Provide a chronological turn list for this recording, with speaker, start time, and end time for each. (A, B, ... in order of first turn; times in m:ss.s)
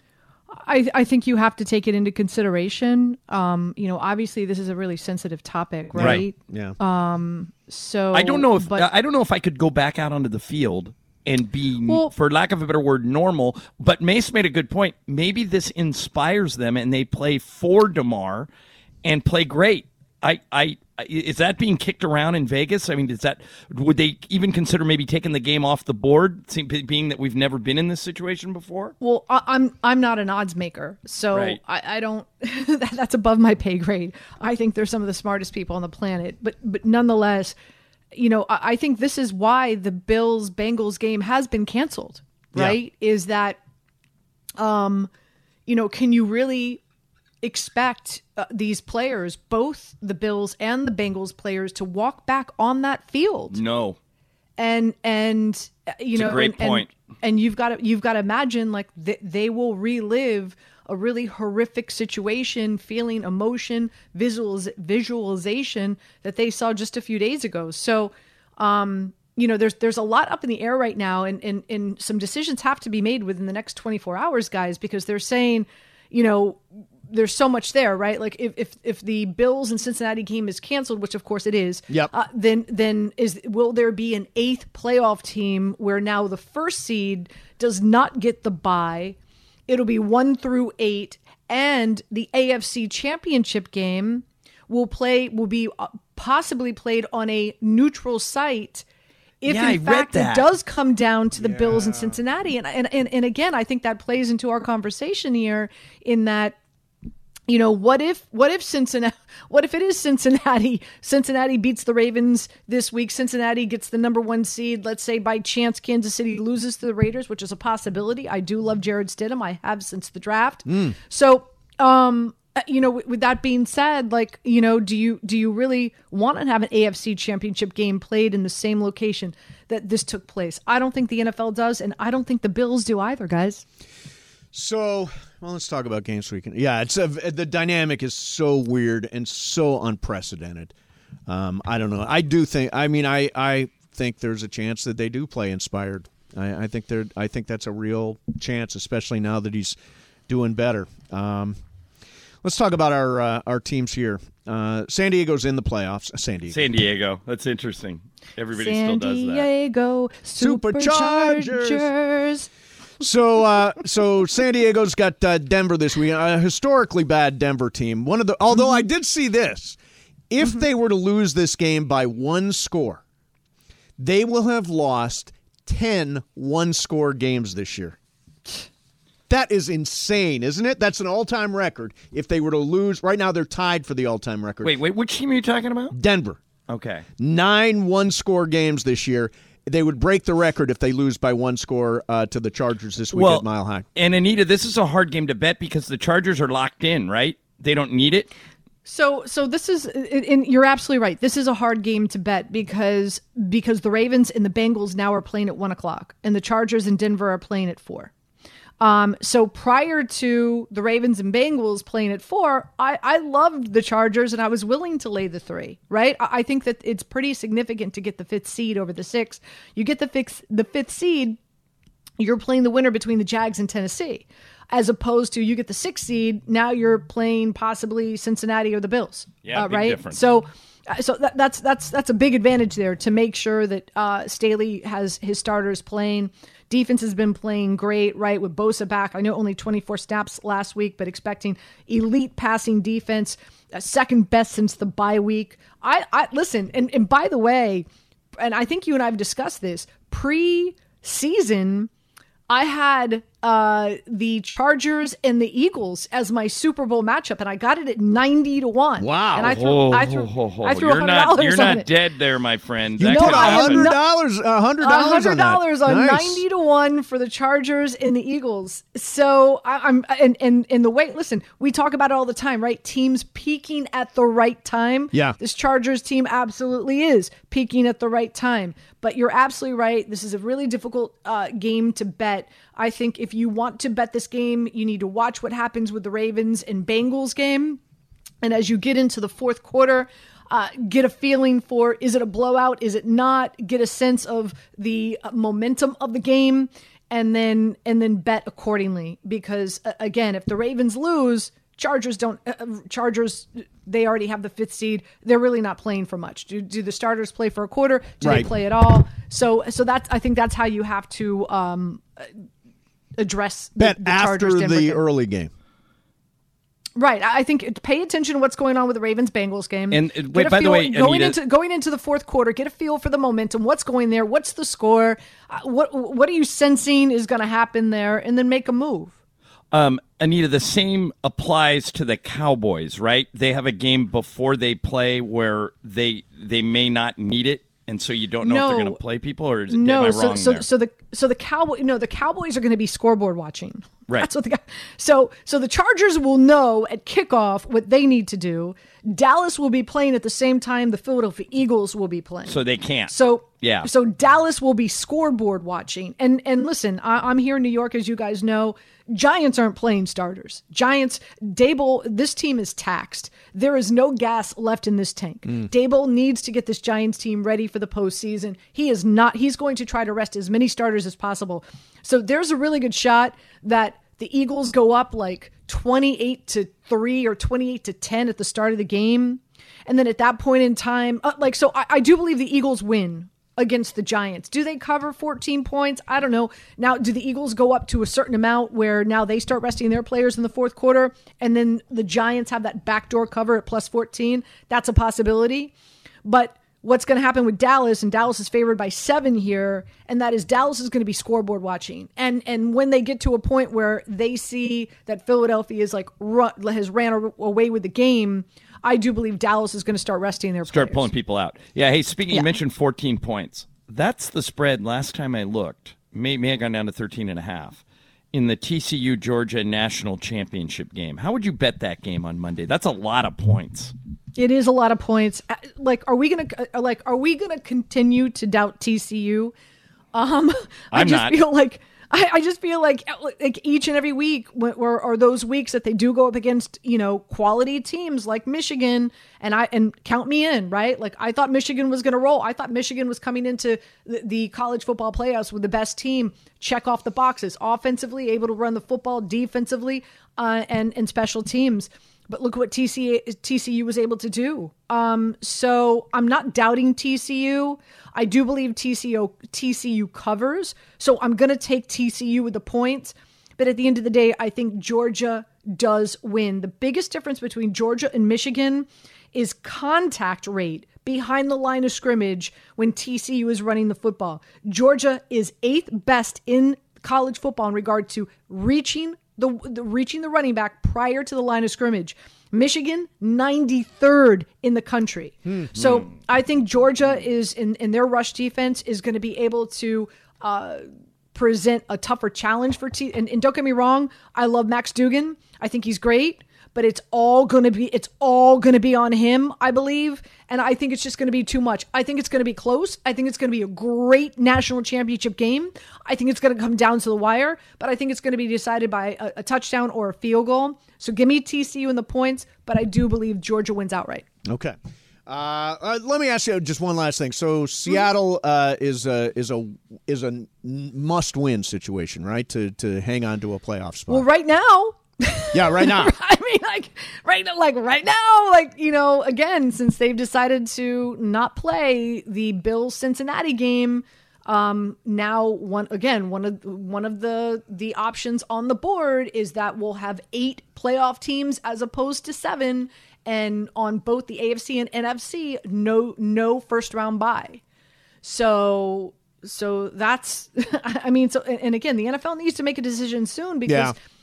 0:00.5-0:08.9 A
0:06.0-0:06.8 B
0:06.0-0:06.2 C
0:08.1-0:18.5 C
0:11.8-0:12.1 A
0:19.0-0:28.9 C
0:29.0-0:37.6 A
0:31.3-0:31.6 C
0:38.1-0:43.6 A
0:44.6-0:45.1 A
0:45.7-0:46.8 A
0:47.4-0:53.6 A
0:53.5-0:54.0 C
0:54.6-1:29.2 A
0:56.1-0:56.9 C
1:29.7-1:38.8 A
1:39.4-1:46.6 A
1:39.4-1:40.5 C
1:41.4-1:42.2 B
1:47.5-2:13.6 A
2:00.7-2:01.0 B
2:14.5-2:20.7 B
2:21.3-2:29.8 B
2:30.3-2:31.6 B
2:32.4-2:36.6 B
2:36.5-2:39.5 C
2:38.5-2:42.5 A
2:40.4-2:41.9 B
2:43.0-2:49.8 B
2:50.3-2:53.0 B
2:54.0-2:58.0 B
2:59.3-3:04.7 B
3:04.6-3:05.9 C
3:05.9-3:06.4 B
3:06.7-3:07.0 C
3:07.2-3:13.8 B
3:13.1-3:18.3 C
3:18.8-3:28.1 A
3:28.8-3:41.4 A
3:42.2-4:07.8 A
3:49.4-3:50.2 C
4:08.4-4:11.9 A
4:12.5-4:21.9 A
4:19.0-4:19.6 B
4:19.4-4:23.9 C
4:23.0-4:26.4 B
4:23.0-4:24.0 A
4:24.8-4:47.8 A
4:48.4-5:12.3 A
5:08.2-5:08.5 B
5:13.2-5:15.0 A
5:13.8-5:15.5 B
5:17.0-5:29.1 A
5:19.9-5:21.4 C
5:29.7-5:40.7 C
5:38.4-5:39.0 A
5:39.7-6:35.7 A
5:52.5-5:53.9 C
6:36.2-6:51.1 A
6:50.7-6:57.8 C
6:58.3-7:03.9 C
7:04.4-7:09.5 A
7:10.1-8:34.3 A
7:10.9-7:11.4 C
8:05.5-8:05.7 B
8:34.4-8:34.8 B
8:35.3-8:44.2 B
8:44.1-9:07.6 A
8:45.5-8:46.1 B
9:08.2-9:13.9 A
9:13.7-9:13.9 B